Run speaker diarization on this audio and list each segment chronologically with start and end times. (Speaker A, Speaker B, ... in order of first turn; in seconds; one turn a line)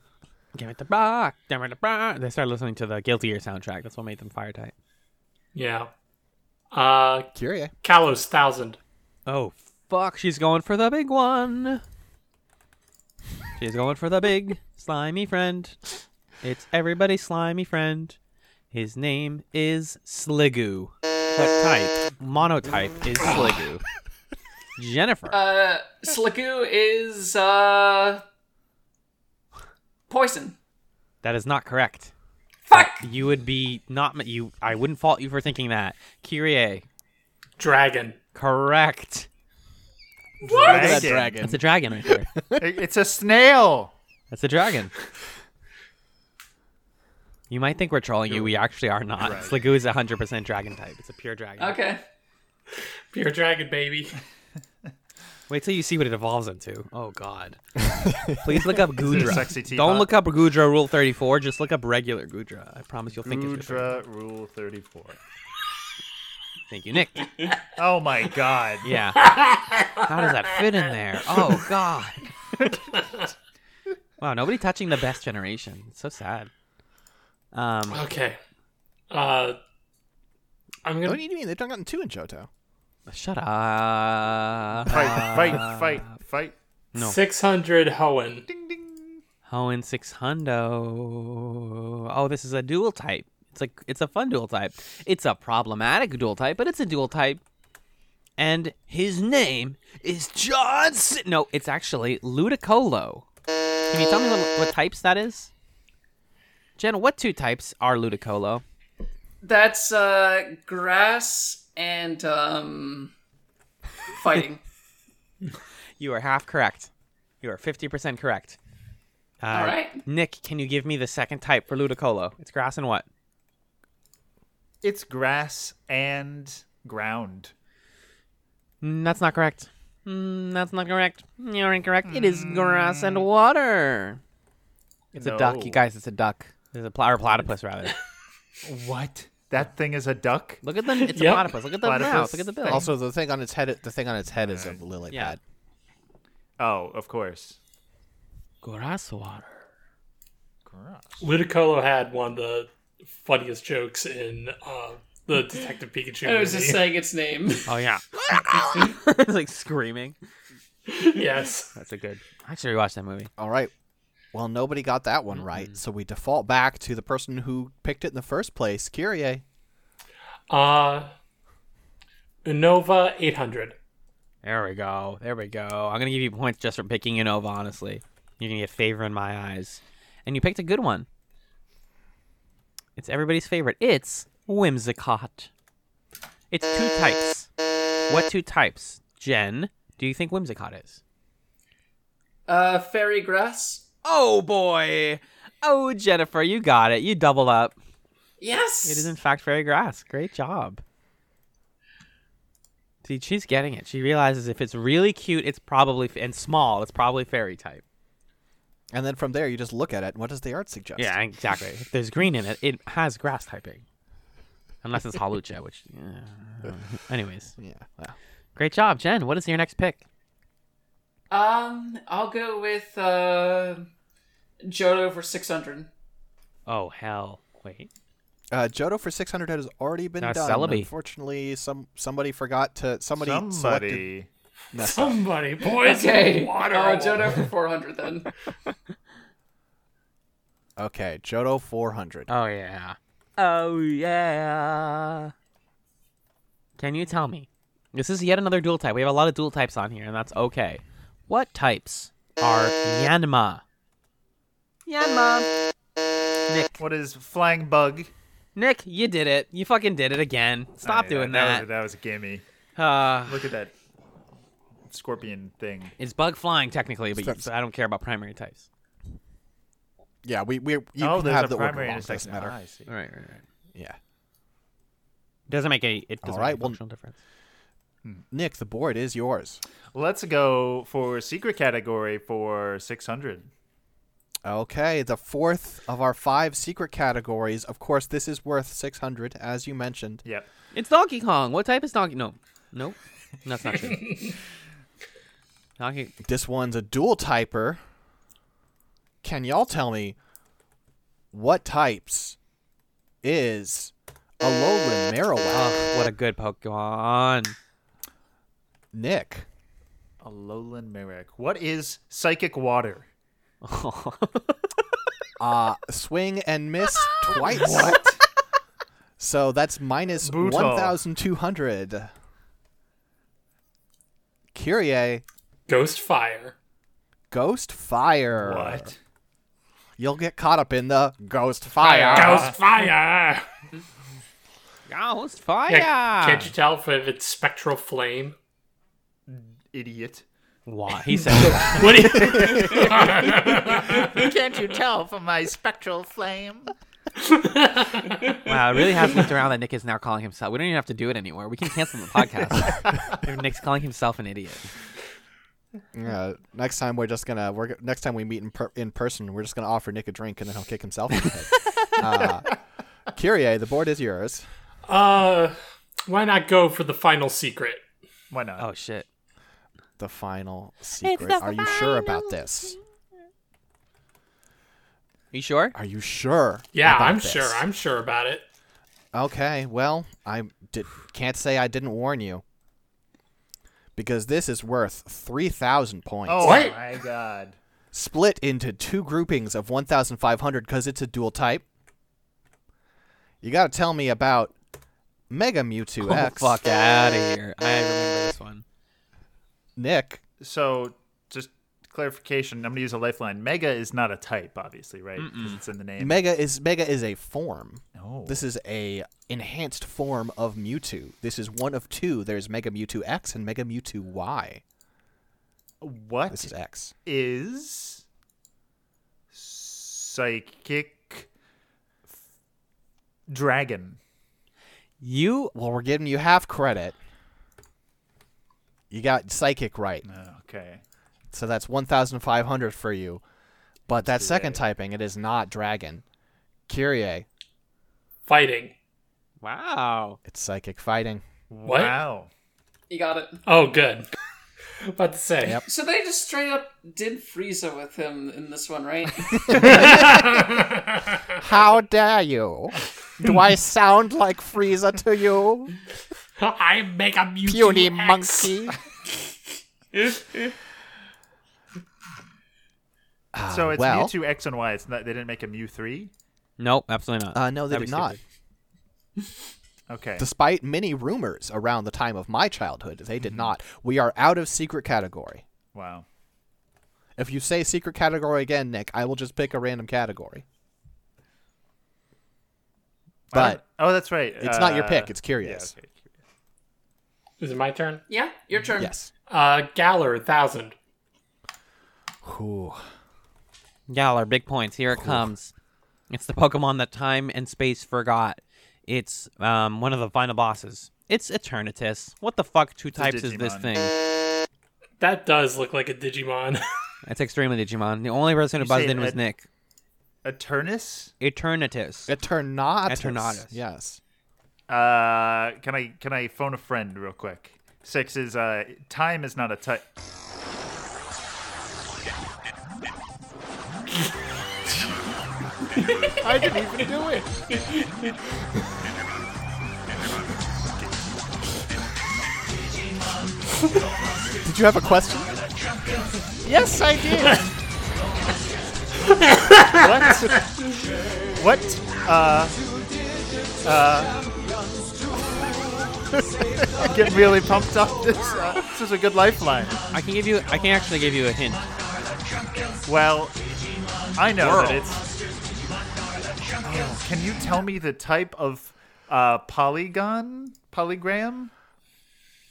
Speaker A: 0.6-4.7
Speaker B: 5.5-5.9
Speaker B: 6.7-7.3
Speaker C: 7.3-7.7
Speaker B: 7.8-8.8
Speaker A: 9.3-11.8
Speaker A: 13.6-15.8
Speaker A: 16.4-18.2
Speaker A: 18.7-23.8
Speaker A: 24.8-25.4
Speaker D: 25.3-28.2
Speaker D: 30.1-30.6
Speaker A: 31.2-32.1
Speaker D: 32.7-33.0
Speaker A: 32.7-36.9
Speaker B: 37.6-38.2
Speaker A: 38.3-39.3
Speaker D: 40.4-41.0
Speaker E: 40.5-41.4
Speaker C: 40.6-42.7
Speaker A: 41.4-42.3
Speaker E: 42.6-43.9
Speaker A: 44.3-44.9
Speaker A: 47.5-51.8
Speaker E: 49.2-49.6
Speaker D: 51.6-52.0
Speaker B: 53.1-54.2
Speaker A: 55.5-57.6
Speaker C: 57.9-58.5
Speaker A: 58.3-64.0
Speaker E: 59.0-60.1
Speaker E: 63.2-65.2
Speaker A: 66.7-67.3
Speaker E: 67.8-68.9
Speaker A: 68.8-69.3
Speaker B: 69.2-70.1
Speaker A: 70.0-72.3
Speaker B: 73.0-73.2
Speaker A: 74.2-76.5
Speaker A: 77.5-78.0
Speaker B: 77.9-78.4
Speaker B: 79.1-79.6
Speaker B: 80.8-81.2
Speaker C: 81.0-82.5
Speaker A: 83.1-86.0
Speaker E: 84.9-86.6
Speaker B: 87.0-88.5
Speaker E: 88.5-89.2
Speaker A: 89.5-97.4
Speaker A: 98.4-103.3
Speaker A: 103.9-105.5
Speaker A: 106.8-108.6
Speaker D: 109.4-113.1
Speaker D: 114.2-114.6
Speaker A: 116.0-116.9
Speaker A: 117.4-118.6
Speaker A: 119.4-123.1
Speaker D: 119.5-120.0
Speaker E: 124.8-127.5
Speaker A: 128.8-134.2
Speaker E: 132.1-133.3
Speaker A: 135.1-138.0
Speaker E: 135.1-135.8
Speaker E: 138.6-140.6
Speaker A: 140.6-142.8
Speaker B: 141.0-141.5
Speaker E: 141.8-142.9
Speaker C: 142.7-145.4
Speaker E: 144.4-144.8
Speaker A: 145.1-145.4
Speaker E: 146.6-147.6
Speaker A: 148.6-149.5
Speaker E: 150.7-151.3
Speaker B: 151.2-156.9
Speaker D: 156.2-157.7
Speaker A: 157.7-160.2
Speaker B: 160.9-161.7
Speaker A: 161.7-163.3
Speaker C: 163.4-163.7
Speaker C: 164.3-169.4
Speaker B: 170.5-171.1
Speaker B: 172.4-173.8
Speaker A: 174.4-181.1
Speaker A: 183.0-185.5
Speaker A: 186.5-187.5
Speaker A: 188.1-191.0
Speaker D: 192.5-193.8
Speaker A: 194.0-197.8
Speaker D: 198.4-199.1
Speaker A: 198.8-200.8
Speaker A: 203.0-207.8
Speaker C: 208.9-211.2
Speaker A: 211.0-213.8
Speaker A: 214.8-217.5
Speaker C: 217.6-218.2
Speaker A: 218.6-220.0
Speaker D: 221.3-223.9
Speaker D: 224.6-225.9
Speaker A: 226.7-227.9
Speaker C: 228.5-234.1
Speaker A: 230.2-230.9
Speaker E: 233.2-234.3
Speaker C: 234.7-235.2
Speaker B: 234.8-237.4
Speaker D: 235.7-238.3
Speaker C: 240.8-242.3
Speaker A: 242.3-245.3
Speaker A: 246.8-253.6
Speaker A: 254.9-255.5
Speaker A: 256.5-256.8
Speaker E: 256.8-258.1
Speaker A: 258.6-261.7
Speaker E: 260.8-262.4
Speaker A: 262.8-263.4
Speaker E: 263.2-263.7
Speaker E: 264.9-265.9
Speaker A: 266.0-268.7
Speaker C: 267.1-267.5
Speaker C: 270.2-272.6
Speaker E: 271.0-272.9
Speaker A: 272.9-273.4
Speaker A: 275.5-277.2
Speaker C: 276.2-276.8
Speaker C: 278.3-279.6
Speaker E: 279.9-283.5
Speaker C: 284.5-290.2
Speaker A: 290.7-294.2
Speaker A: 295.8-296.1
Speaker C: 296.2-297.8
Speaker C: 299.2-300.2
Speaker C: 301.3-302.4
Speaker C: 303.2-305.8
Speaker A: 305.5-307.6
Speaker C: 308.9-309.5
Speaker E: 310.2-313.1
Speaker A: 313.6-314.7
Speaker C: 315.4-318.1
Speaker E: 317.4-318.2
Speaker C: 319.2-322.1
Speaker E: 320.2-321.0
Speaker C: 324.5-325.2
Speaker B: 325.7-326.5
Speaker C: 327.3-328.9
Speaker E: 328.4-329.0
Speaker C: 330.0-332.5
Speaker E: 331.8-332.6
Speaker B: 332.1-333.4
Speaker A: 334.9-336.5
Speaker B: 335.7-338.4
Speaker E: 339.3-340.2
Speaker A: 340.7-342.8
Speaker B: 341.3-344.3
Speaker C: 342.4-342.7
Speaker E: 343.3-346.7
Speaker B: 347.2-348.4
Speaker A: 348.4-354.7
Speaker C: 355.9-362.5
Speaker C: 363.1-364.5
Speaker B: 364.9-367.8
Speaker E: 368.3-368.7
Speaker A: 368.6-369.1
Speaker C: 370.0-372.8
Speaker A: 371.0-372.4
Speaker A: 375.3-375.8
Speaker C: 375.7-377.6
Speaker B: 376.7-378.4
Speaker C: 379.1-382.4
Speaker C: 384.0-386.6
Speaker E: 386.3-387.6
Speaker B: 386.4-386.8
Speaker C: 387.9-391.6
Speaker C: 393.4-394.5
Speaker C: 395.3-396.6
Speaker A: 396.0-398.6
Speaker C: 399.8-400.2
Speaker E: 400.4-406.2
Speaker A: 405.2-405.6
Speaker C: 406.0-414.6
Speaker E: 408.0-408.4
Speaker E: 415.8-416.5
Speaker C: 416.3-416.9
Speaker E: 417.1-418.0
Speaker E: 419.3-421.3
Speaker E: 423.3-424.0
Speaker A: 425.0-425.5
Speaker C: 425.5-427.0
Speaker C: 428.9-430.1
Speaker E: 430.0-430.8
Speaker C: 431.3-433.2
Speaker C: 433.9-436.0
Speaker E: 434.0-434.6
Speaker C: 436.7-437.3
Speaker B: 438.3-438.7
Speaker A: 439.4-440.2
Speaker C: 440.2-441.2
Speaker E: 441.5-442.3
Speaker B: 441.7-442.0
Speaker D: 442.9-443.4
Speaker B: 443.4-444.1
Speaker B: 444.8-445.6
Speaker D: 445.7-449.8
Speaker C: 449.4-450.4
Speaker B: 449.6-451.3
Speaker C: 451.4-455.7
Speaker B: 456.4-458.6
Speaker C: 457.4-458.8
Speaker C: 463.3-464.1
Speaker E: 463.5-466.1
Speaker A: 466.6-468.2
Speaker C: 467.3-468.2
Speaker E: 469.9-470.3
Speaker C: 470.2-475.4
Speaker E: 473.2-473.5
Speaker E: 475.7-476.1
Speaker C: 477.2-480.4
Speaker E: 483.3-486.1
Speaker C: 483.3-483.6
Speaker C: 484.4-485.7
Speaker B: 487.4-488.0
Speaker D: 488.1-488.9
Speaker C: 488.8-489.1
Speaker B: 489.3-490.8
Speaker C: 492.2-492.9
Speaker A: 493.9-495.5
Speaker C: 494.9-495.3
Speaker A: 496.1-503.9
Speaker E: 502.9-503.7
Speaker B: 505.0-506.6
Speaker A: 507.1-509.5
Speaker E: 508.6-509.2
Speaker E: 510.2-511.1
Speaker A: 511.2-512.1
Speaker C: 512.1-514.0
Speaker A: 512.9-513.6
Speaker E: 514.7-519.9
Speaker E: 526.2-527.3
Speaker C: 534.4-535.4
Speaker E: 536.5-537.4
Speaker B: 539.2-539.9
Speaker E: 539.7-540.5
Speaker E: 541.4-542.6
Speaker E: 543.6-544.2
Speaker C: 546.1-546.9
Speaker E: 546.7-549.9
Speaker A: 549.9-551.6
Speaker E: 552.8-553.4
Speaker E: 554.1-555.1
Speaker A: 554.4-554.9
Speaker E: 556.6-561.5